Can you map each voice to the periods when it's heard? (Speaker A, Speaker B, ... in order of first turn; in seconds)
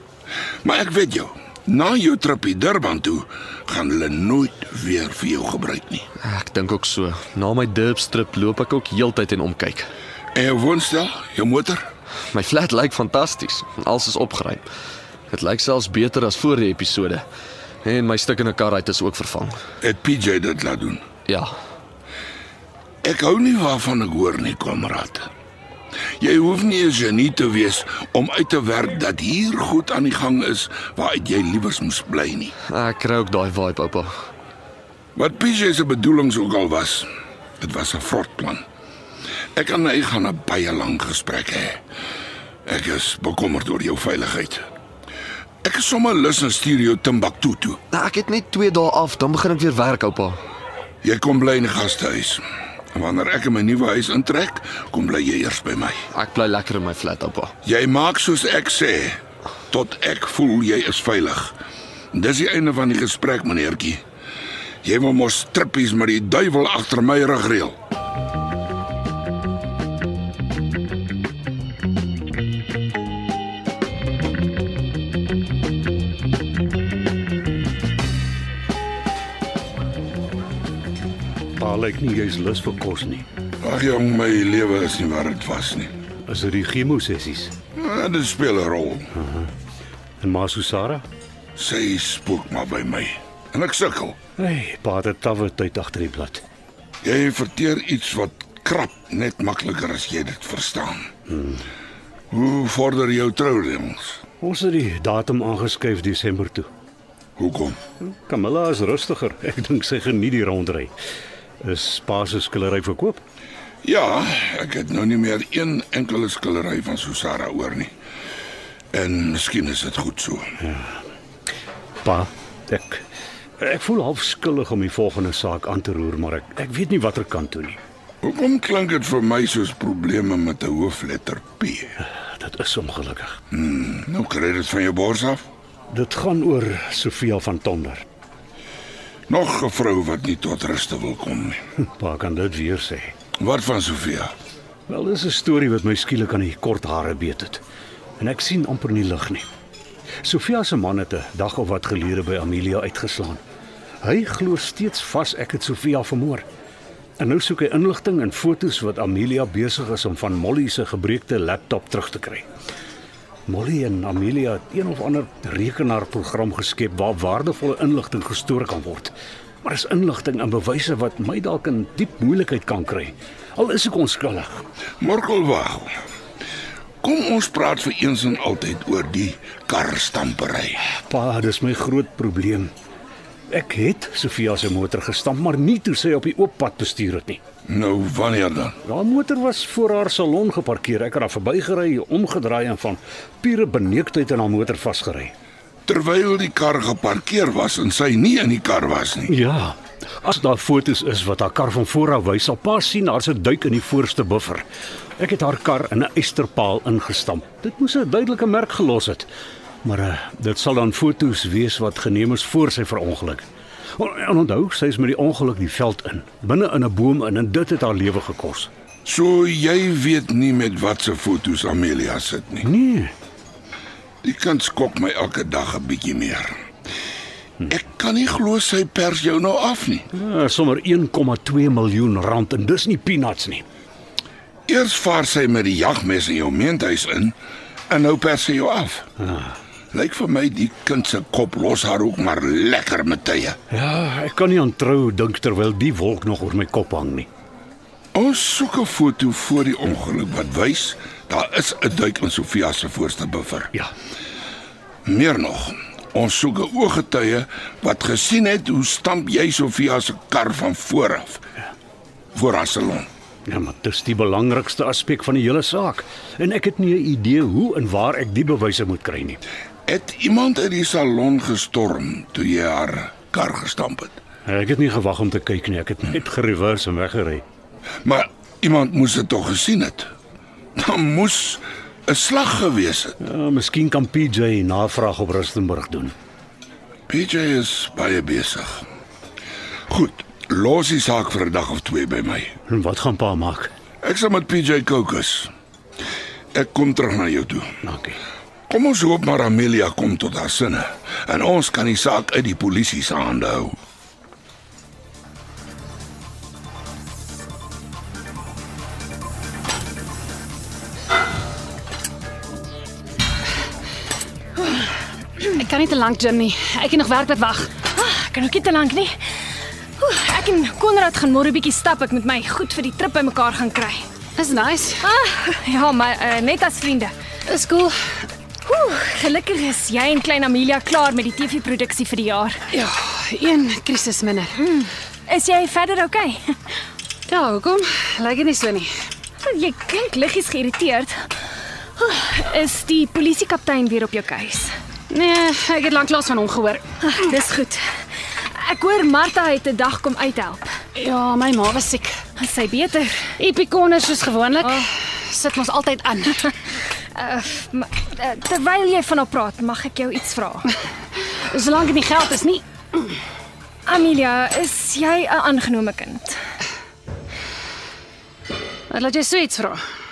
Speaker A: 0.6-6.0, 10.3-11.8, 19.8-21.0, 23.0-25.3, 26.2-32.5, 35.1-37.1, 37.6-38.6, 39.5-41.8, 42.6-44.6, 45.6-47.8, 51.0-56.0, 57.6-59.2, 59.7-61.5, 62.1-64.0, 64.8-67.8, 83.6-85.9, 87.8-89.1, 91.5-94.2, 97.0-101.1, 102.3-104.2, 107.4-107.8, 113.8-117.9, 118.9-120.5, 128.2-131.9, 133.5-135.4, 139.3-141.6, 143.4-144.3, 175.0-175.9, 177.0-180.8, 187.7-188.8, 195.8-199.3, 219.0-222.7, 224.2-226.6, 227.7-230.1, 234.7-237.3, 237.9-239.1, 239.9-243.6, 248.1-253.7, 255.0-261.4, 262.3-263.1, 269.9-274.2, 278.0-280.1, 280.8-283.1, 287.1-288.9, 289.9-292.5, 294.0-295.5, 296.5-297.7, 298.7-303.8
Speaker B: 6.2-9.9, 12.3-14.6, 15.3-17.2, 17.8-19.6, 32.7-34.1, 47.9-50.4, 56.1-57.5
Speaker C: 81.6-83.2, 86.3-87.5, 89.2-89.5, 90.2-91.0, 94.4-96.4, 101.3-101.6, 104.4-106.7, 108.1-110.9, 111.6-113.2, 120.6-121.0, 122.0-123.0, 123.6-127.8, 132.0-133.4, 135.9-138.0, 142.0-143.1, 144.9-147.6, 148.2-149.5, 150.2-153.4, 154.0-156.4, 157.2-162.4, 163.5-174.6, 180.9-182.7, 183.5-187.4, 188.8-195.3, 199.3-204.7, 205.2-209.3, 209.8-218.7, 222.6-223.1, 230.1-233.7, 239.2-239.6, 243.7-247.3, 263.5-269.4, 274.5-277.4, 283.2-286.1, 292.7-293.7, 297.8-298.2
Speaker D: 315.6-317.7, 324.4-325.0, 327.5-328.0, 332.7-334.5, 337.3-338.9, 345.1-346.8, 350.9-352.1, 353.4-356.4, 361.5-363.1, 368.9-369.8
Speaker E: 317.9-319.2, 320.0-324.1, 325.0-327.1, 328.6-332.6, 334.7-336.5, 339.4-341.3, 342.0-344.7, 347.0-347.8, 348.6-350.7, 352.4-353.3, 357.1-360.8, 363.9-366.4